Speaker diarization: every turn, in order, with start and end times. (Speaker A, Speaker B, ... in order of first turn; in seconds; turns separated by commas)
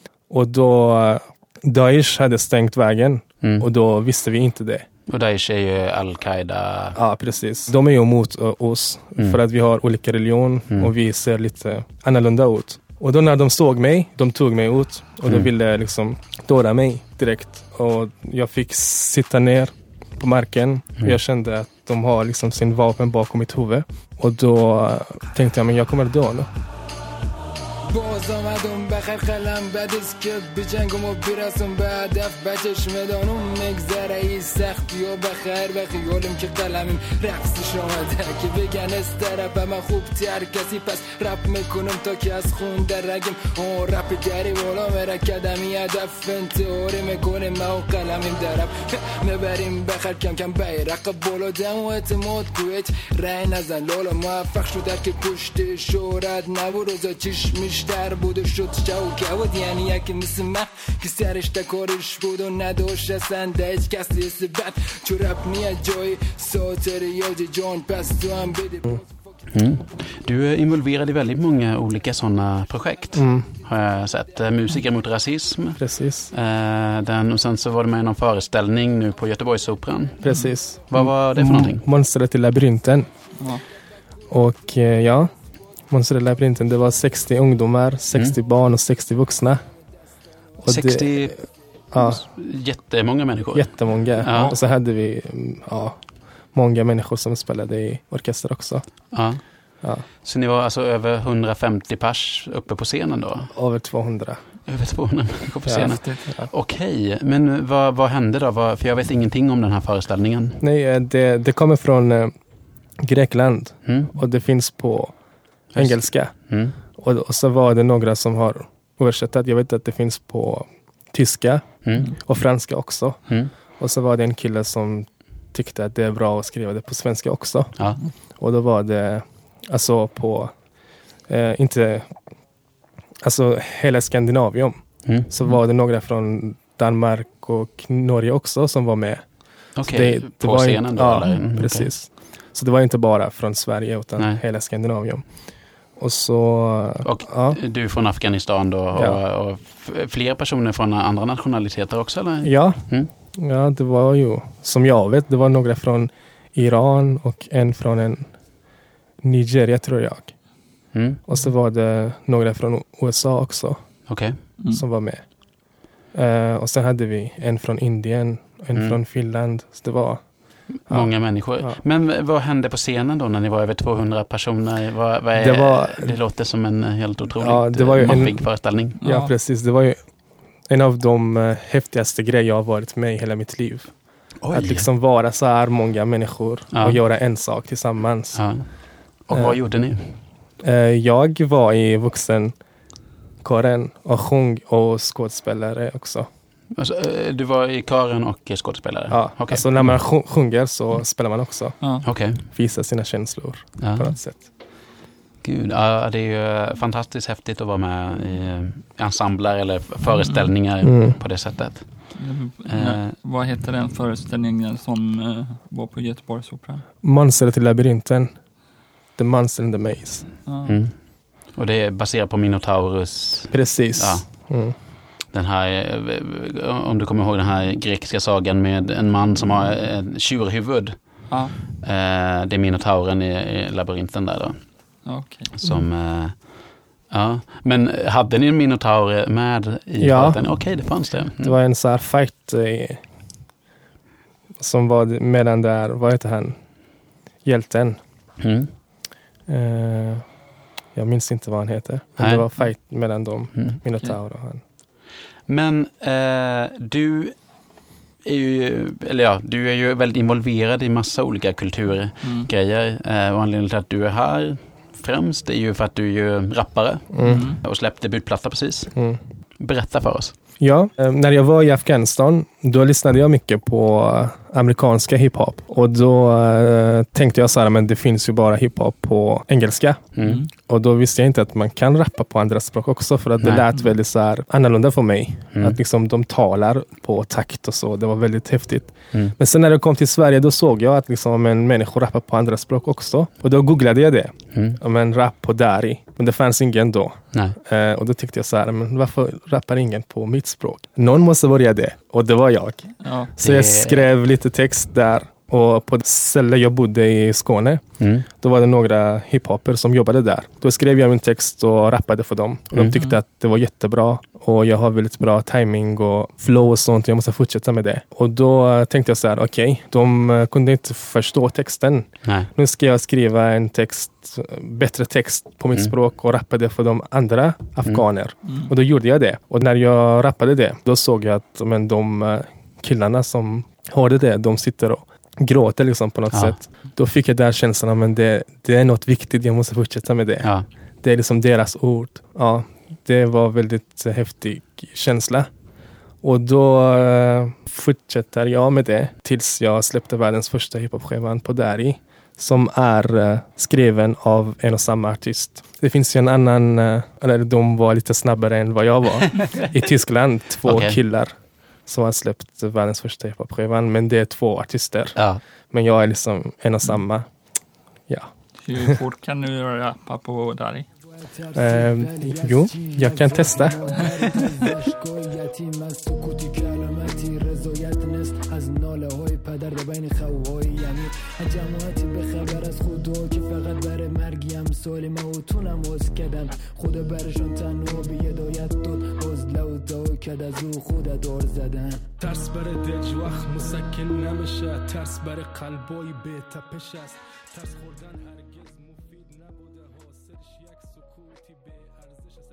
Speaker A: 0.3-4.9, Speaker B: 3.4-3.7, Speaker B: 5.1-7.0, Speaker A: 7.0-26.5, Speaker C: 27.9-69.0, Speaker B: 69.5-81.8, Speaker A: 73.2-73.5, Speaker A: 75.8-76.3, Speaker A: 80.2-83.1, Speaker D: 80.3-80.5, Speaker A: 84.3-85.3, Speaker A: 85.9-89.6, Speaker A: 90.6-92.2, Speaker B: 90.7-94.6, Speaker A: 93.5-96.0, Speaker D: 94.3-94.6, Speaker A: 96.5-99.1, Speaker B: 99.1-99.4, Speaker B: 100.1-103.5, Speaker A: 103.5-104.4, Speaker B: 104.7-110.6, Speaker A: 105.7-106.5, Speaker D: 105.8-106.2, Speaker A: 110.6-112.3, Speaker A: 113.0-115.2, Speaker B: 113.8-114.1, Speaker B: 115.7-116.8, Speaker A: 115.7-127.8, Speaker B: 121.8-122.1, Speaker B: 123.3-123.5, Speaker B: 127.8-128.0, Speaker A: 128.4-130.5, Speaker A: 131.3-132.1, Speaker A: 133.2-145.2, Speaker B: 135.1-135.3, Speaker B: 139.8-141.9, Speaker A: 145.9-147.6, Speaker B: 147.0-153.1, Speaker A: 148.9-149.2, Speaker A: 152.4-158.3, Speaker A: 159.2-160.4, Speaker B: 160.9-161.2, Speaker A: 161.3-163.8, Speaker B: 164.1-164.4, Speaker A: 164.7-165.4, Speaker A: 166.1-171.8, Speaker B: 168.7-169.0, Speaker B: 170.8-179.0, Speaker A: 175.4-176.2, Speaker A: 177.4-180.0, Speaker D: 178.0-178.3, Speaker D: 179.0-179.3, Speaker A: 180.7-183.9, Speaker B: 184.4-184.9, Speaker A: 184.5-188.4, Speaker B: 186.7-187.0, Speaker B: 188.3-190.2, Speaker A: 189.3-189.6, Speaker A: 190.6-192.6, Speaker A: 193.4-196.3, Speaker B: 196.7-200.0, Speaker A: 199.1-204.5, Speaker B: 202.0-202.4, Speaker B: 203.8-204.2, Speaker B: 205.4-213.2, Speaker D: 210.2-210.5, Speaker A: 210.8-211.2, Speaker D: 212.2-216.8, Speaker A: 217.0-218.4, Speaker A: 219.1-220.3, Speaker D: 220.5-220.8, Speaker B: 220.7-224.5, Speaker A: 223.5-224.8, Speaker B: 225.3-234.7, Speaker D: 231.3-231.6, Speaker D: 235.1-235.5, Speaker B: 235.5-241.6, Speaker A: 240.0-243.0, Speaker A: 244.6-246.7, Speaker A: 247.4-248.0, Speaker B: 248.4-248.7, Speaker A: 249.5-250.2, Speaker A: 250.9-254.6, Speaker B: 252.2-252.5, Speaker B: 255.5-257.4, Speaker B: 258.2-269.0, Speaker D: 262.2-262.5, Speaker A: 267.1-267.5, Speaker D: 267.2-267.6, Speaker B: 269.6-270.4, Speaker A: 270.6-340.5, Speaker B: 280.2-280.4, Speaker D: 280.2-280.5, Speaker B: 294.5-294.8, Speaker D: 303.0-303.3, Speaker B: 303.4-304.1, Speaker B: 308.0-308.3, Speaker B: 322.2-322.5, Speaker D: 328.4-328.7, Speaker B: 336.3-336.6, Speaker B: 340.4-340.7, Speaker A: 341.0-345.5, Speaker A: 346.2-367.3, Speaker B: 360.6-361.0, Speaker B: 365.2-365.4, Speaker A: 368.1-369.0, Speaker D: 368.6-370.9, Speaker C: 371.2-392.1, Speaker A: 371.6-373.8, Speaker A: 392.2-401.7